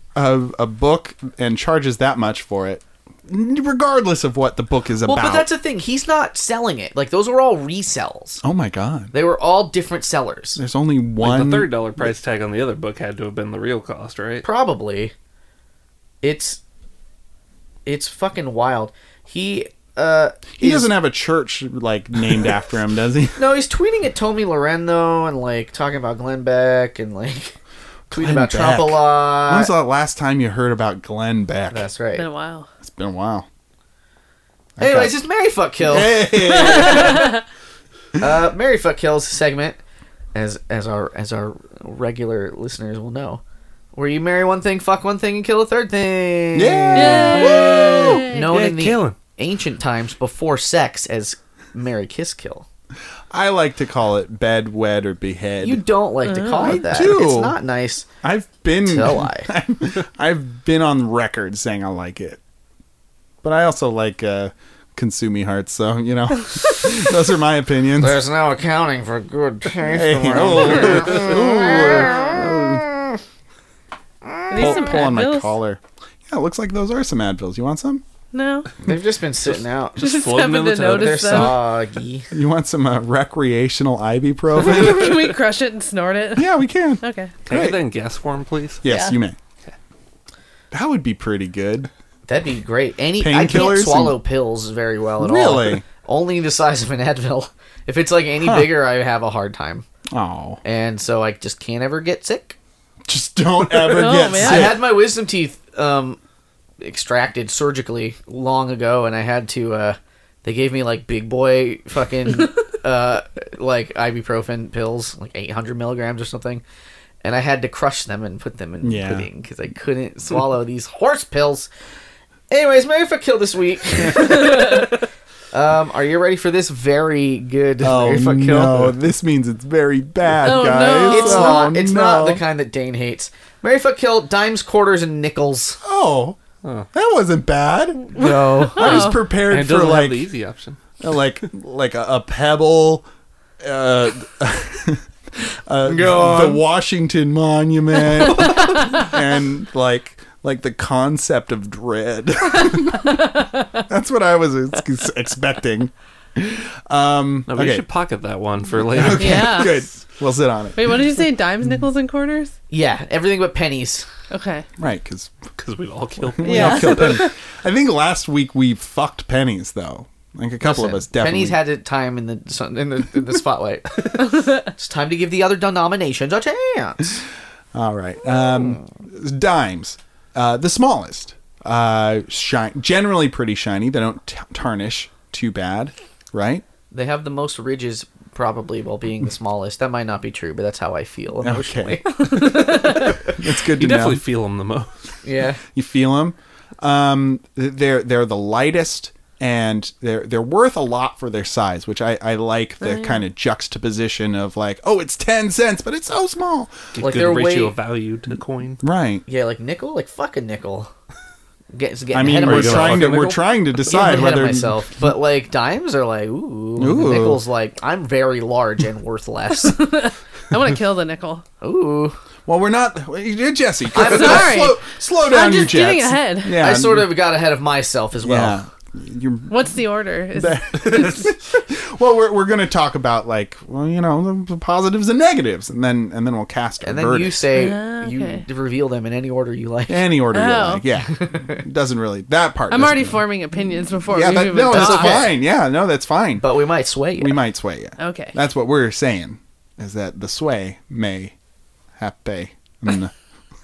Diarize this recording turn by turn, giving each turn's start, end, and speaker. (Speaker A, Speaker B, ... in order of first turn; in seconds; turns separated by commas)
Speaker A: 0.1-5.5, Speaker B: 5.0-8.4, Speaker A: 8.4-9.1, Speaker B: 9.1-10.6, Speaker A: 10.6-12.1, Speaker C: 11.2-14.5, Speaker B: 14.4-15.1, Speaker B: 16.2-16.6, Speaker B: 17.9-20.9, Speaker A: 20.6-23.4, Speaker B: 23.4-27.6, Speaker B: 28.1-29.7, Speaker A: 28.2-31.9, Speaker B: 31.7-32.3, Speaker D: 32.1-32.7, Speaker A: 32.8-33.5, Speaker A: 34.8-35.2, Speaker B: 34.8-37.4, Speaker A: 35.8-37.4, Speaker D: 36.9-37.4, Speaker B: 38.2-39.8, Speaker B: 40.3-43.4, Speaker B: 43.9-47.6, Speaker A: 46.5-48.3, Speaker D: 46.9-48.5, Speaker B: 48.3-52.7, Speaker C: 48.4-49.2, Speaker A: 53.3-55.8, Speaker B: 55.6-58.1, Speaker D: 56.2-56.8, Speaker A: 56.6-57.6, Speaker A: 58.2-62.4, Speaker B: 58.9-59.5, Speaker A: 63.4-68.2, Speaker B: 68.0-73.2, Speaker A: 69.8-72.9, Speaker B: 74.3-74.8, Speaker D: 74.5-75.5, Speaker A: 74.5-78.0, Speaker D: 78.3-78.7, Speaker B: 78.8-80.0, Speaker C: 79.5-81.5, Speaker D: 80.0-81.6, Speaker B: 80.9-82.3, Speaker A: 82.3-85.3, Speaker D: 84.6-87.3, Speaker A: 86.3-87.8, Speaker C: 87.5-88.8, Speaker A: 88.8-89.4, Speaker D: 88.9-89.2, Speaker A: 90.7-91.9, Speaker B: 92.3-99.8, Speaker A: 93.2-94.2, Speaker A: 95.2-95.8, Speaker A: 98.4-98.7, Speaker A: 100.1-100.6, Speaker B: 100.6-102.6, Speaker A: 103.1-104.9, Speaker D: 103.9-104.8, Speaker B: 104.3-106.2, Speaker B: 106.8-116.6, Speaker B: 117.2-121.7, Speaker A: 118.8-119.3, Speaker B: 122.5-129.0, Speaker A: 127.8-132.4, Speaker D: 130.4-131.7, Speaker B: 131.1-135.8, Speaker A: 135.8-136.4, Speaker C: 136.6-136.9, Speaker A: 136.9-140.3, Speaker B: 138.1-139.1, Speaker D: 138.2-139.2, Speaker C: 138.8-140.8, Speaker A: 141.0-143.1, Speaker A: 143.6-157.8, Speaker B: 145.8-146.6, Speaker C: 157.5-159.6, Speaker A: 158.8-161.0, Speaker D: 159.2-159.8, Speaker D: 160.8-162.5, Speaker B: 162.7-164.1, Speaker D: 164.3-164.7, Speaker A: 164.8-165.3, Speaker C: 165.6-167.1, Speaker A: 166.4-171.6, Speaker D: 166.4-167.3, Speaker B: 170.6-177.2, Speaker A: 177.7-186.6, Speaker B: 186.9-193.3, Speaker A: 191.4-192.7, Speaker D: 192.2-193.2, Speaker A: 193.2-194.2, Speaker C: 193.5-195.1, Speaker B: 195.2-195.6, Speaker A: 195.7-206.9, Speaker D: 202.9-203.2, Speaker C: 206.9-208.8, Speaker B: 207.0-207.8, Speaker A: 208.8-209.2, Speaker B: 209.3-210.9, Speaker B: 211.7-213.2, Speaker A: 212.1-215.1, Speaker C: 212.4-213.4, Speaker B: 213.8-219.8, Speaker A: 216.8-217.4, Speaker D: 219.5-221.4, Speaker B: 221.6-222.2, Speaker A: 222.5-227.1, Speaker B: 223.9-224.6, Speaker D: 224.0-226.6, Speaker B: 226.5-228.6, Speaker A: 228.2-229.8, Speaker D: 229.5-231.3, Speaker A: 230.3-237.4, Speaker B: 236.8-240.1, Speaker D: 237.5-238.4, Speaker A: 239.9-243.2, Speaker D: 240.3-240.8, Speaker B: 241.1-241.6, Speaker D: 242.7-245.2, Speaker A: 244.1-246.5, Speaker B: 244.6-245.3, Speaker B: 246.4-247.4, Speaker A: 247.2-251.3, Speaker D: 248.0-248.3, Speaker A: 252.0-253.1